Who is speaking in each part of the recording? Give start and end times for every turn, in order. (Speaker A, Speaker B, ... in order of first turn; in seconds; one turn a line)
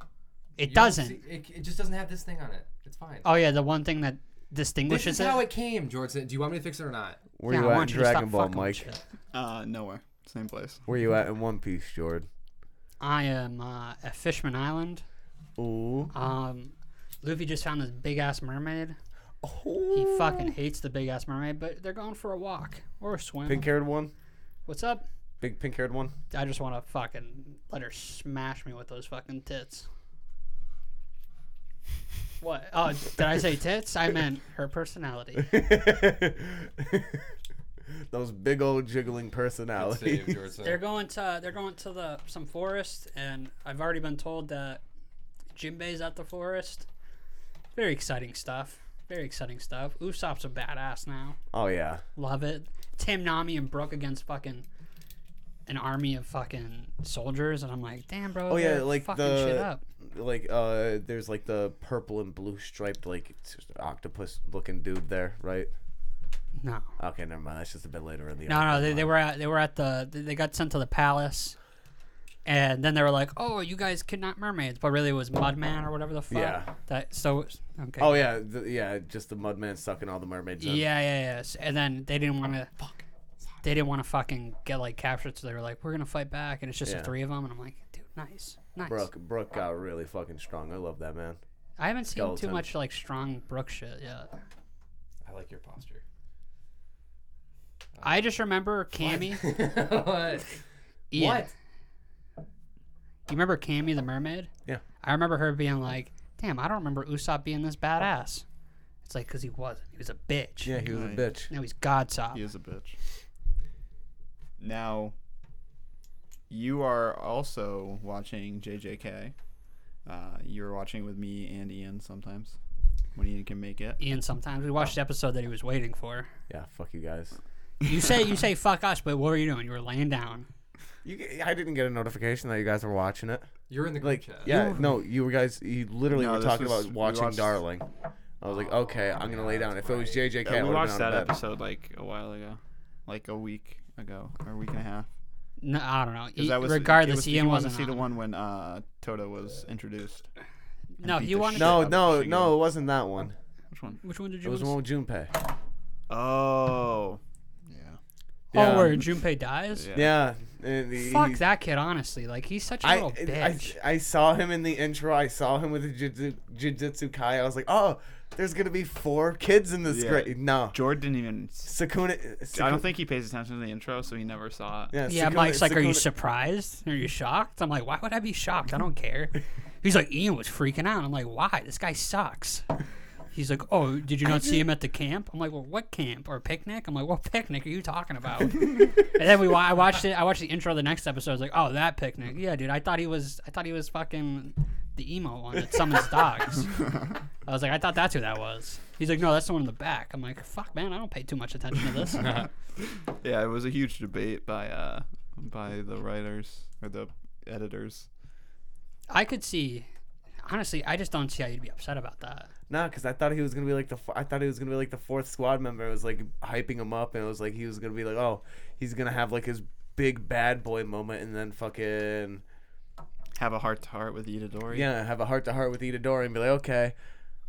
Speaker A: 0.6-1.2
Speaker B: 0.6-3.3
Speaker A: 3.2-5.4
Speaker B: 4.9-7.2
Speaker C: 7.4-8.8
Speaker A: 7.5-9.0
Speaker D: 9.3-10.8
Speaker C: 10.9-12.3
Speaker A: 13.0-15.0
Speaker C: 15.6-16.1
Speaker A: 16.1-19.0
Speaker C: 19.4-20.6
Speaker A: 19.9-23.7
Speaker C: 23.5-24.1
Speaker A: 24.7-25.0
Speaker C: 25.4-26.1
Speaker A: 26.3-29.9
Speaker A: 32.4-35.5
Speaker C: 35.4-37.2
Speaker C: 38.1-40.4
Speaker B: 39.8-40.8
Speaker A: 40.6-44.8
Speaker A: 45.5-46.9
Speaker A: 47.8-51.4
Speaker C: 51.5-52.0
Speaker A: 52.2-54.7
Speaker A: 55.7-59.8
Speaker C: 58.5-65.7
Speaker A: 66.6-66.9
Speaker C: 67.0-69.1
Speaker A: 68.5-71.6
Speaker A: 72.5-78.2
Speaker C: 76.3-76.7
Speaker C: 78.0-80.9
Speaker A: 80.6-82.7
Speaker B: 82.8-83.6
Speaker A: 83.6-89.1
Speaker C: 86.8-87.1
Speaker C: 88.9-91.4
Speaker A: 91.8-94.3
Speaker C: 92.1-92.7
Speaker B: 95.2-96.0
Speaker B: 98.0-98.2
Speaker A: 98.0-99.5
Speaker B: 99.0-100.5
Speaker A: 101.1-101.5
Speaker B: 101.1-101.5
Speaker A: 103.3-104.5
Speaker A: 105.0-108.4
Speaker A: 109.0-110.8
Speaker C: 110.6-111.5
Speaker D: 110.9-111.3
Speaker A: 111.5-112.4
Speaker D: 112.3-113.0
Speaker D: 114.6-115.2
Speaker D: 116.5-119.3
Speaker D: 120.0-122.6
Speaker D: 123.1-124.0
Speaker A: 124.0-126.3
Speaker C: 126.5-127.4
Speaker A: 127.8-130.5
Speaker C: 131.0-133.5
Speaker B: 133.7-134.6
Speaker C: 134.0-137.9
Speaker D: 134.5-134.9
Speaker D: 136.1-137.6
Speaker C: 138.4-141.3
Speaker B: 138.5-140.3
Speaker D: 140.4-145.1
Speaker A: 145.6-148.0
Speaker D: 146.4-150.3
Speaker A: 151.0-151.9
Speaker D: 151.0-152.6
Speaker C: 151.6-153.3
Speaker D: 153.7-154.0
Speaker A: 154.0-154.8
Speaker C: 154.4-155.3
Speaker D: 156.1-158.0
Speaker C: 158.5-159.0
Speaker A: 158.5-159.9
Speaker D: 158.5-159.0
Speaker D: 159.7-160.2
Speaker C: 159.9-161.4
Speaker A: 161.0-163.8
Speaker C: 162.8-170.8
Speaker D: 169.8-171.7
Speaker C: 171.7-172.8
Speaker D: 172.5-175.0
Speaker C: 174.9-176.1
Speaker A: 175.1-182.7
Speaker A: 183.3-196.8
Speaker A: 197.5-202.4
Speaker B: 202.2-202.5
Speaker D: 202.8-208.1
Speaker A: 209.1-209.9
Speaker A: 210.4-212.5
Speaker C: 212.7-222.4
Speaker D: 223.4-224.9
Speaker C: 224.7-226.9